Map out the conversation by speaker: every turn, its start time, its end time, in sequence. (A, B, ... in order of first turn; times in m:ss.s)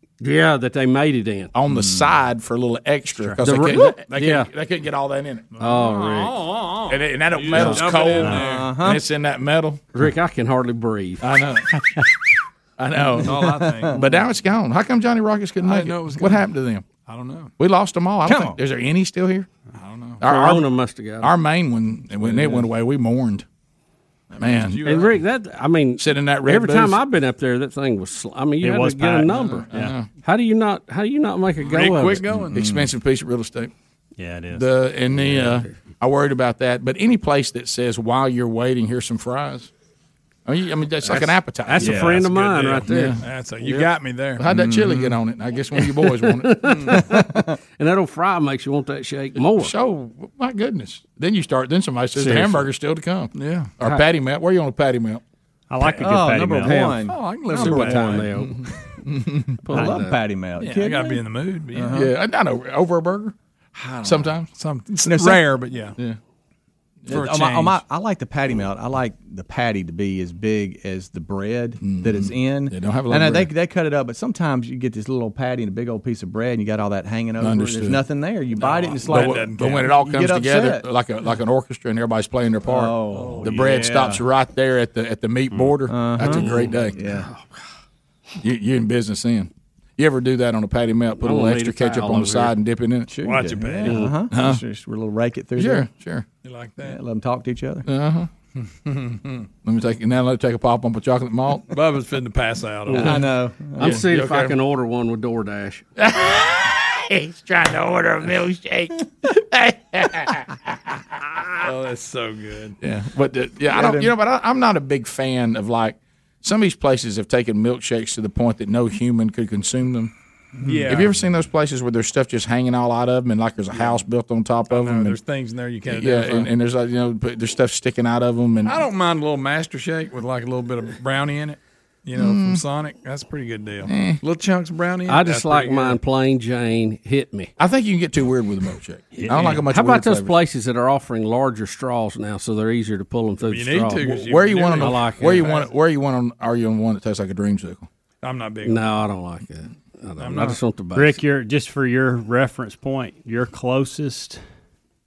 0:00.2-0:01.5 A
0:01.5-0:05.5 B
0:01.7-0:02.1 C
0:03.4-0:04.5 A
0:05.5-0:08.7 D
0:05.6-0:06.4 A
0:06.9-0:09.8 B
0:07.6-0:09.0 C
0:09.9-0:11.2 A
0:11.2-0:11.7 B
0:12.8-0:16.8 B
0:13.2-0:14.0 C
0:13.2-0:14.0 D
0:15.6-0:16.4 D
0:17.0-0:17.5 D
0:17.6-0:19.5 B
0:18.2-0:18.6 C
0:19.8-0:20.2 D
0:20.2-0:20.7 B
0:20.2-0:21.3 A
0:21.2-0:23.4 B
0:24.4-0:25.1 D
0:24.4-0:24.8 B
0:24.8-0:32.2 A
0:26.0-0:27.0 B
0:28.6-0:29.9 E
0:29.7-0:30.1 B
0:31.6-0:32.6 D
0:32.4-0:32.9 C
0:32.5-0:33.7 B
0:34.2-0:34.7 E
0:34.5-0:39.7 B
0:35.2-0:35.6 E
0:40.4-0:42.1 B
0:41.0-0:43.9 A
0:42.0-0:44.4 D
0:42.9-0:43.2 B
0:44.4-0:46.8 B
0:44.5-0:45.2 C
0:45.8-0:47.0 A
0:46.9-0:47.5 C
0:47.8-0:49.7 A
0:49.6-0:55.2 B
0:52.2-0:52.7 A
0:53.3-0:53.7 D
0:55.7-0:57.0 E
0:56.0-0:58.1 C
0:56.6-0:58.6 A
0:57.1-0:58.3 D
0:57.6-0:58.2 E
0:59.6-1:00.2 A
0:59.7-1:02.1 C
1:00.6-1:02.0 D
1:01.9-1:03.3 B
1:03.8-1:06.0 D
1:04.0-1:04.5 B
1:05.0-1:05.5 C
1:07.1-1:20.8 C
1:07.1-1:07.8 D
1:11.8-1:13.5 B
1:17.4-1:18.0 B
1:18.6-1:19.9 D
1:19.0-1:27.0 B
1:22.6-1:24.2 C
1:23.1-1:23.8 D
1:25.9-1:27.3 C
1:26.2-1:27.6 A
1:28.4-1:33.2 B
1:31.2-1:32.5 A
1:33.1-1:35.9 C
1:33.2-1:34.1 D
1:33.8-1:34.1 A
1:34.3-1:34.6 B
1:35.6-1:36.2 B
1:36.4-1:37.0 D
1:36.8-1:37.8 C
1:37.8-1:38.3 B
1:38.8-1:39.5 D
1:39.6-1:41.7 B
1:41.7-1:43.2 D
1:42.9-1:43.1 A
1:43.0-1:44.0 C
1:43.8-1:45.8 A
1:43.8-1:44.5 B
1:46.0-1:51.4 B
1:51.6-1:52.8 D
1:52.8-2:00.1 B
1:53.7-1:54.1 C
2:00.6-2:01.1 D
2:00.9-2:05.2 B
2:04.7-2:06.5 D
2:05.9-2:08.8 B
2:08.6-2:16.0 D
2:12.2-2:12.6 B
2:13.8-2:14.2 B
2:15.1-2:17.5 A
2:17.6-2:20.3 B
2:19.1-2:19.6 E
2:19.2-2:24.2 A
2:23.4-2:25.7 D
2:24.1-2:27.9 B
2:24.8-2:25.5 A
2:28.2-2:28.8 D
2:28.6-2:31.2 A
2:30.2-2:30.6 D
2:30.9-2:34.4 E